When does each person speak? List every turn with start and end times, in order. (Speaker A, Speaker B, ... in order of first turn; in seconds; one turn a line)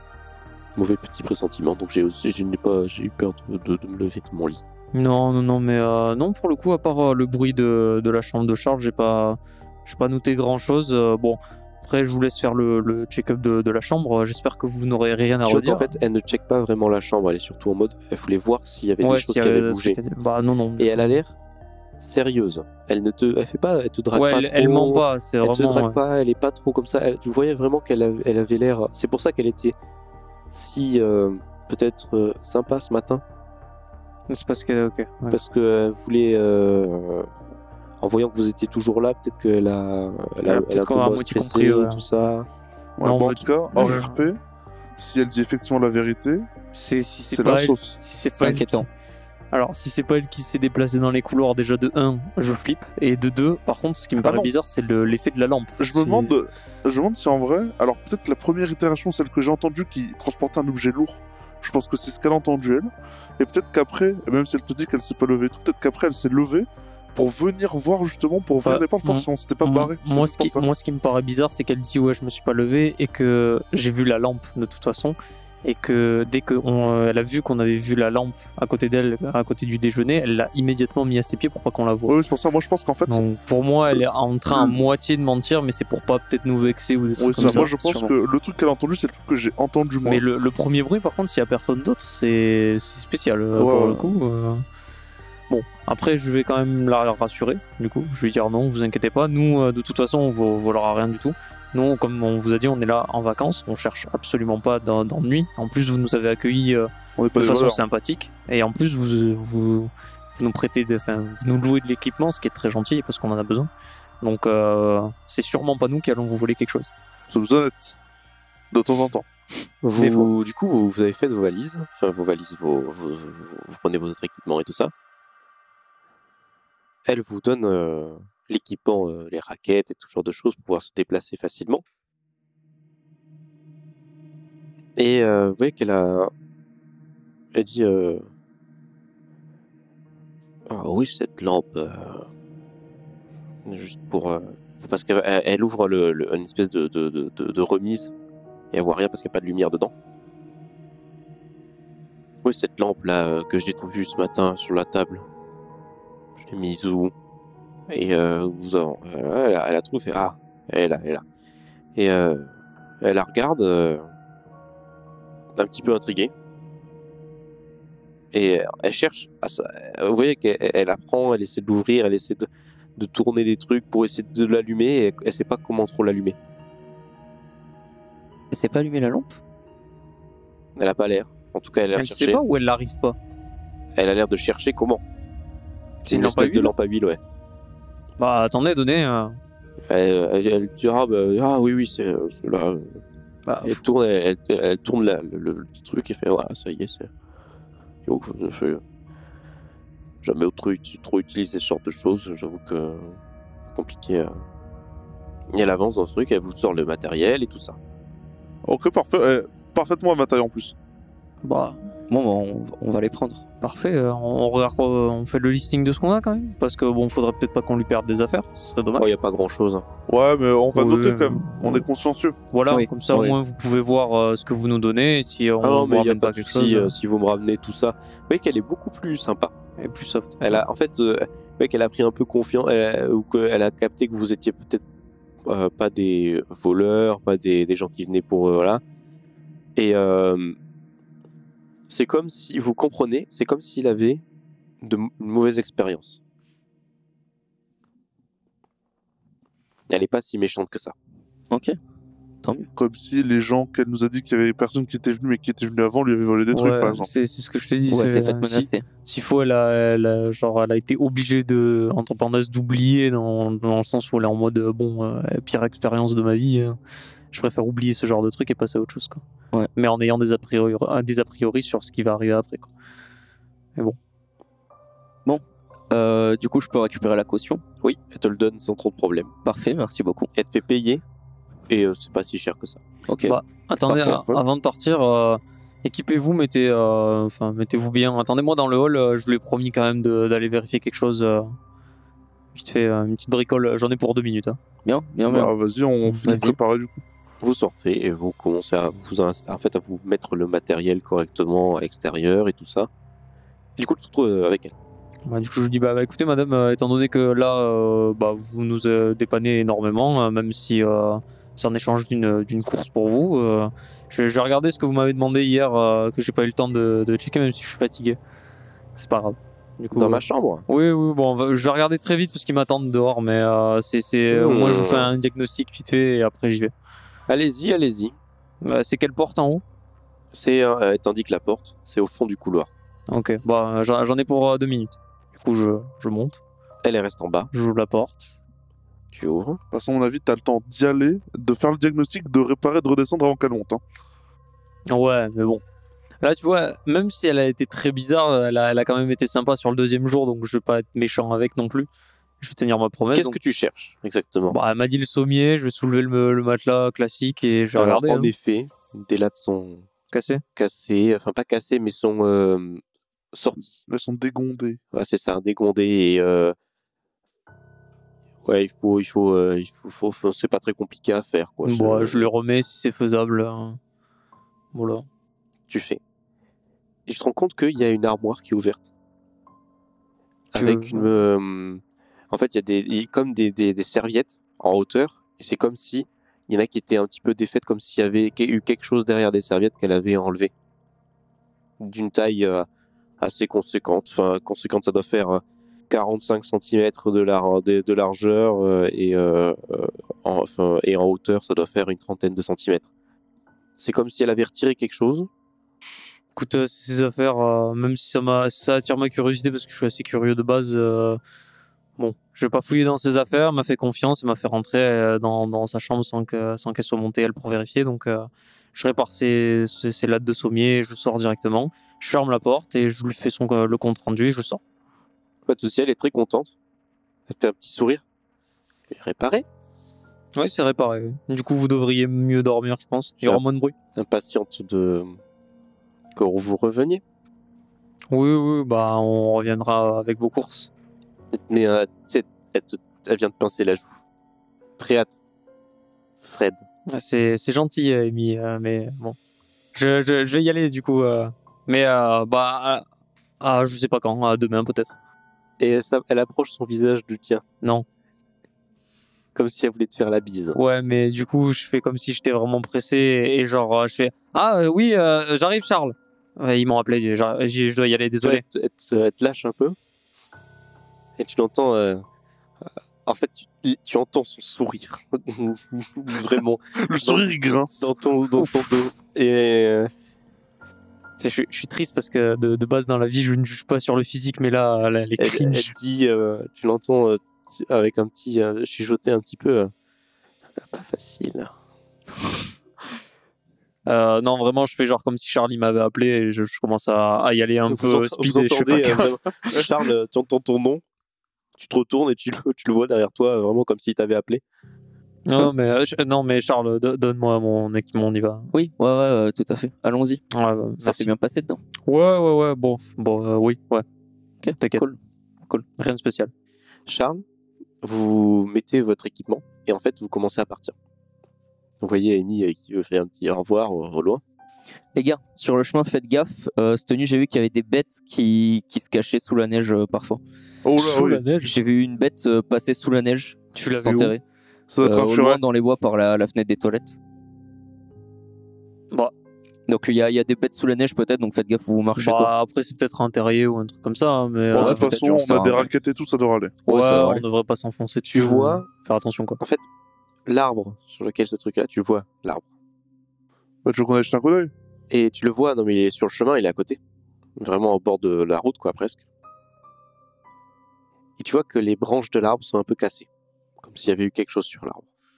Speaker A: 0.7-4.6
Speaker B: 4.9-15.9
Speaker A: 15.4-20.0
Speaker B: 19.0-21.2
Speaker A: 20.8-21.3
Speaker A: 22.0-29.7
Speaker B: 24.1-26.0
Speaker A: 30.5-33.2
Speaker B: 34.3-35.4
Speaker A: 35.3-37.3
Speaker A: 38.0-42.5
Speaker B: 40.4-42.0
Speaker C: 43.0-44.4
Speaker B: 43.0-44.2
Speaker C: 45.0-46.5
Speaker B: 46.7-48.9
Speaker C: 47.3-48.0
Speaker D: 48.2-48.9
Speaker B: 49.5-56.3
Speaker C: 54.2-54.5
Speaker C: 55.8-70.6
Speaker B: 68.6-82.1
Speaker C: 82.1-83.2
Speaker B: 83.1-88.1
Speaker C: 83.9-84.8
Speaker C: 87.2-90.2
Speaker D: 87.4-88.0
Speaker B: 90.0-94.6
Speaker C: 93.5-94.1
Speaker B: 95.5-113.7
Speaker C: 107.2-107.8
Speaker B: 114.2-116.9
Speaker C: 117.3-118.0
Speaker C: 118.7-119.3
Speaker A: 119.8-124.9
Speaker B: 120.0-120.3
Speaker A: 127.0-131.8
Speaker A: 135.0-136.3
Speaker A: 137.5-138.3
Speaker A: 140.7-142.3
Speaker A: 143.6-148.1
Speaker A: 148.7-149.9
Speaker A: 152.4-155.2
Speaker A: 156.4-157.1
Speaker A: 157.9-161.2
Speaker A: 161.9-164.1
Speaker A: 165.5-166.3
Speaker A: 168.3-176.4
Speaker D: 178.5-179.4
Speaker A: 180.8-182.4
Speaker B: 181.9-183.2
Speaker A: 183.9-185.0
Speaker B: 186.0-186.7
Speaker A: 186.1-187.2
Speaker B: 188.2-189.4
Speaker A: 189.9-193.0
Speaker B: 193.4-193.8
Speaker A: 193.6-197.1
Speaker A: 198.1-198.8
Speaker A: 200.2-203.2
Speaker A: 203.7-204.4
Speaker A: 205.5-207.8
Speaker C: 208.6-210.8
Speaker B: 211.4-211.8
Speaker D: 212.1-213.4
Speaker B: 213.6-219.1
Speaker A: 219.0-219.8
Speaker C: 220.1-222.4
Speaker B: 220.7-221.8
Speaker B: 222.5-226.9
Speaker D: 222.7-223.3
Speaker A: 225.6-229.5
Speaker B: 229.8-230.6
Speaker A: 230.4-234.8
Speaker A: 235.4-238.8
Speaker A: 239.8-240.6
Speaker A: 241.9-244.2
Speaker A: 244.8-246.2
Speaker A: 249.9-250.9
Speaker D: 251.5-251.8
Speaker D: 252.4-252.7
Speaker C: 252.8-257.1
Speaker B: 256.5-266.8
Speaker D: 257.9-258.9
Speaker B: 267.3-269.2
Speaker B: 269.8-272.7
Speaker D: 275.2-277.6
Speaker A: 277.8-279.3
Speaker D: 279.4-280.3
Speaker A: 280.3-281.0
Speaker A: 281.7-282.8
Speaker D: 283.1-283.4
Speaker B: 283.2-291.6
Speaker C: 283.8-284.4
Speaker B: 292.5-294.6
Speaker D: 294.8-295.5
Speaker C: 295.2-297.0
Speaker D: 296.2-296.6
Speaker A: 297.4-302.9
Speaker A: 303.8-304.7
Speaker B: 305.3-318.2
Speaker B: 318.9-326.7
Speaker A: 319.9-320.6
Speaker A: 324.3-325.1
Speaker A: 327.3-328.1
Speaker B: 328.6-329.6
Speaker A: 330.3-332.7
Speaker B: 333.1-336.4
Speaker A: 336.8-337.5
Speaker B: 337.5-338.3
Speaker A: 339.1-339.6
Speaker C: 339.7-343.8
Speaker B: 344.9-345.6
Speaker B: 346.2-351.9
Speaker B: 352.4-353.4
Speaker A: 353.1-354.6
Speaker B: 354.5-358.3
Speaker A: 357.8-359.9
Speaker B: 360.1-360.4
Speaker A: 360.6-362.8
Speaker A: 363.3-363.8
Speaker C: 363.8-364.8
Speaker A: 364.9-366.5
Speaker A: 368.4-372.3
Speaker B: 371.6-373.8
Speaker B: 374.7-375.1
Speaker A: 375.7-376.0
Speaker A: 377.1-378.9
Speaker A: 380.5-390.5
Speaker B: 380.5-381.1
Speaker A: 391.8-392.7
Speaker A: 393.2-402.9
Speaker A: 403.8-405.3
Speaker B: 406.3-411.2
Speaker B: 412.0-424.6
Speaker A: 425.4-426.5
Speaker A: 427.3-428.0
Speaker A: 428.9-429.4
Speaker B: 430.4-433.7
Speaker A: 433.9-435.2
Speaker A: 436.1-437.0
Speaker B: 438.1-440.7
Speaker A: 441.3-444.0
Speaker A: 444.8-445.2
Speaker A: 446.2-446.6
Speaker B: 446.9-449.2
Speaker B: 449.7-452.8
Speaker B: 453.4-454.9
Speaker A: 455.6-457.4
Speaker A: 459.3-460.6
Speaker B: 460.5-468.4
Speaker A: 468.2-469.8
Speaker A: 471.2-472.0
Speaker A: 473.0-479.9
Speaker C: 476.8-478.8
Speaker B: 481.2-485.7
Speaker A: 485.2-489.7
Speaker A: 490.6-491.5
Speaker B: 493.9-499.1
Speaker A: 497.7-500.8
Speaker A: 501.6-504.4
Speaker B: 505.3-508.5
Speaker D: 508.5-510.2
Speaker B: 510.3-511.1
Speaker D: 510.8-511.6
Speaker B: 511.9-513.8
Speaker D: 514.4-515.6
Speaker B: 514.6-514.9
Speaker B: 515.8-516.3
Speaker A: 516.9-517.2
Speaker A: 517.8-520.7
Speaker A: 521.8-524.2
Speaker D: 524.9-530.2
Speaker C: 530.6-531.2
Speaker B: 530.8-531.5
Speaker D: 530.9-534.2
Speaker B: 533.5-534.1
Speaker C: 534.7-535.4
Speaker D: 534.8-537.0
Speaker D: 539.7-542.3
Speaker B: 542.0-545.0
Speaker C: 544.5-546.5
Speaker D: 544.5-545.7
Speaker D: 546.7-547.2
Speaker B: 546.7-549.4
Speaker A: 548.0-548.7
Speaker A: 550.2-552.5
Speaker C: 553.6-554.5
Speaker A: 554.9-556.8
Speaker A: 557.4-559.0
Speaker A: 561.2-563.1
Speaker A: 563.6-564.9